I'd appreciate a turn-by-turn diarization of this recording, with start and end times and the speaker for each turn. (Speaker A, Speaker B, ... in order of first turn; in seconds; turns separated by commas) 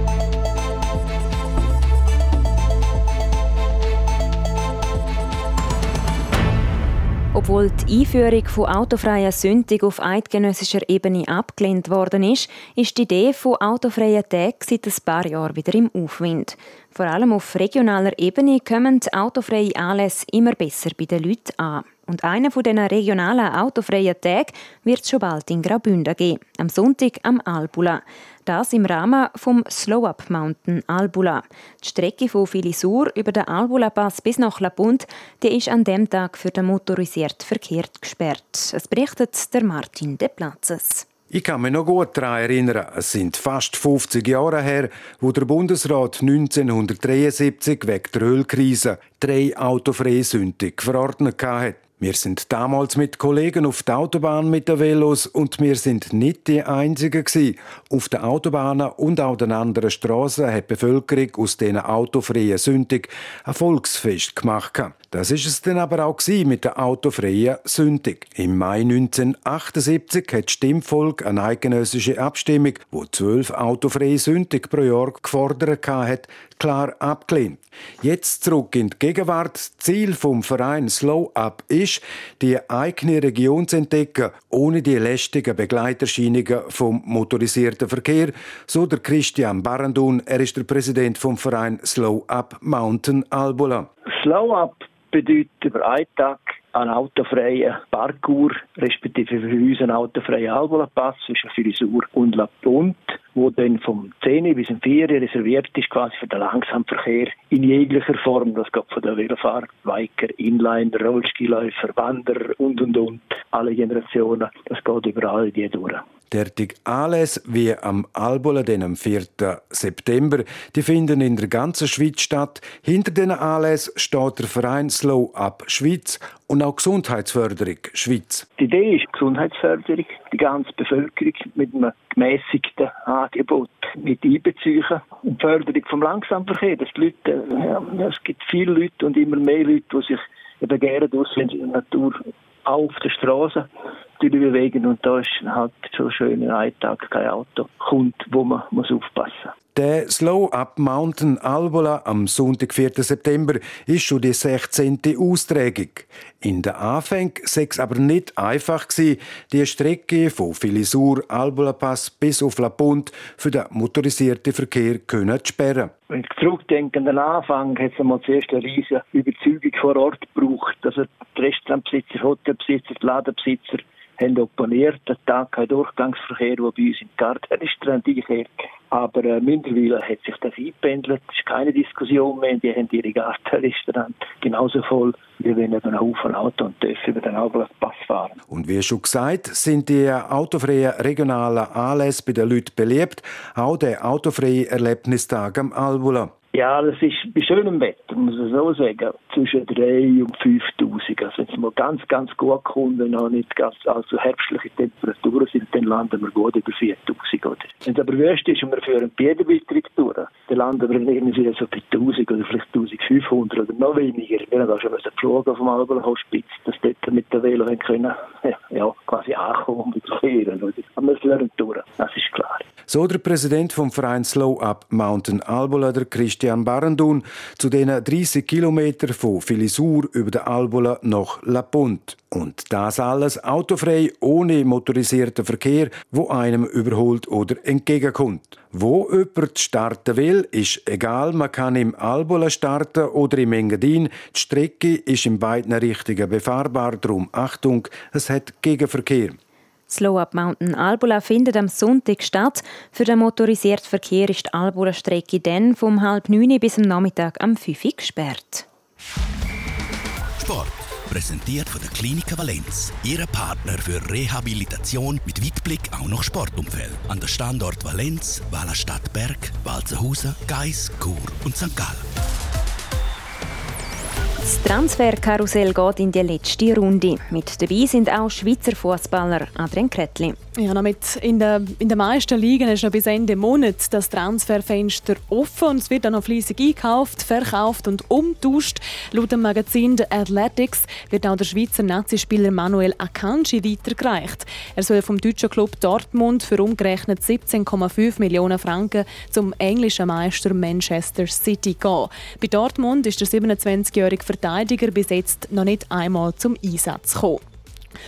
Speaker A: 7.3-41.1, Speaker B: 41.3-93.9, Speaker C: 94.1-116.0, Speaker B: 116.3-128.5, Speaker C: 128.6-143.7, Speaker C: 144.2-149.5, Speaker B: 149.8-165.9, Speaker C: 166.1-188.4, Speaker B: 188.5-196.3, Speaker C: 196.5-222.7, Speaker B: 222.9-249.4, Speaker A: 249.9-258.6, Speaker D: 260.4-272.0, Speaker A: 274.4-280.4, Speaker E: 280.6-307.4